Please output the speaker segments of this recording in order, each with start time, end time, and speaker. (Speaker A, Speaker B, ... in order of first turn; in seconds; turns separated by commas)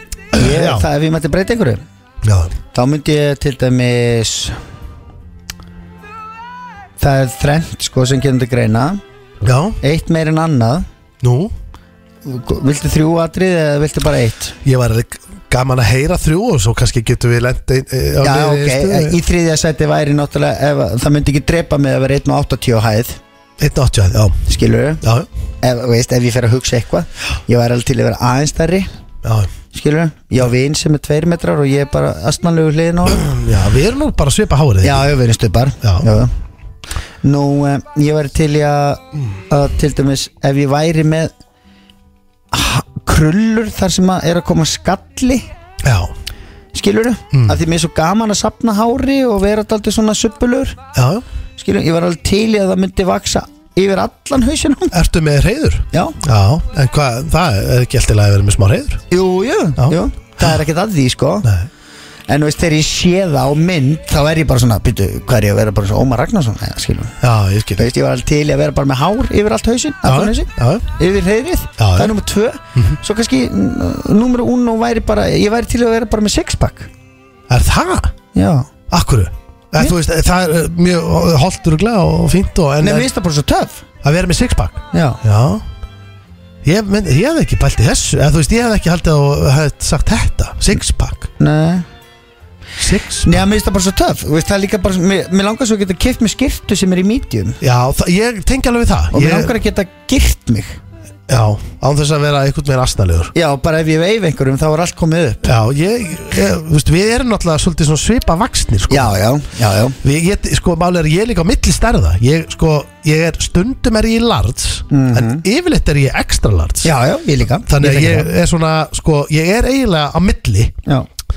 Speaker A: 0.3-0.9, Speaker B: 0.3-1.8, Speaker A: 2.2-2.5, Speaker B: 2.7-4.6, Speaker B: 7.0-9.0, Speaker A: 9.4-9.8, Speaker B: 9.8-10.8, Speaker A: 11.2-11.5, Speaker B: 12.2-14.6, Speaker A: 14.6-19.2, Speaker B: 18.2-23.2, Speaker A: 23.6-24.4, Speaker B: 24.5-25.0, Speaker A: 25.0-25.3, Speaker B: 25.6-28.9, Speaker A: 29.2-29.5, Speaker B: 29.7-33.3, Speaker A: 33.1-35.1, Speaker B: 34.8-36.3, Speaker A: 35.8-36.1, Speaker B: 37.2-41.3, Speaker B: 42.5-45.5, Speaker A: 45.8-46.1, Speaker B: 46.7-50.8, Speaker A: 47.3-47.6, Speaker A: 50.9-51.2, Speaker B: 51.6-54.9, Speaker A: 54.9-59.0, Speaker B: 55.9-56.2, Speaker B: 59.1-61.5, Speaker A: 59.8-60.5, Speaker A: 61.4-61.7, Speaker B: 62.3-67.2, Speaker A: 67.2-67.9, Speaker B: 67.8-76.9, Speaker A: 70.0-70.9, Speaker A: 71.8-72.1, Speaker A: 77.5-78.1, Speaker B: 78.3-78.7, Speaker A: 78.9-83.1, Speaker B: 82.8-83.8, Speaker A: 84.0-85.6, Speaker B: 84.9-85.2, Speaker A: 86.6-91.3, Speaker B: 91.4-91.8, Speaker A: 92.8-93.5, Speaker B: 93.2-97.6, Speaker A: 97.6-99.5, Speaker B: 99.1-100.8, Speaker A: 101.3-103.3, Speaker B: 103.3-105.4, Speaker A: 105.4-109.1, Speaker B: 108.9-110.0, Speaker A: 110.0-116.9, Speaker B: 114.9-115.4, Speaker B: 116.8-118.3, Speaker A: 117.7-120.7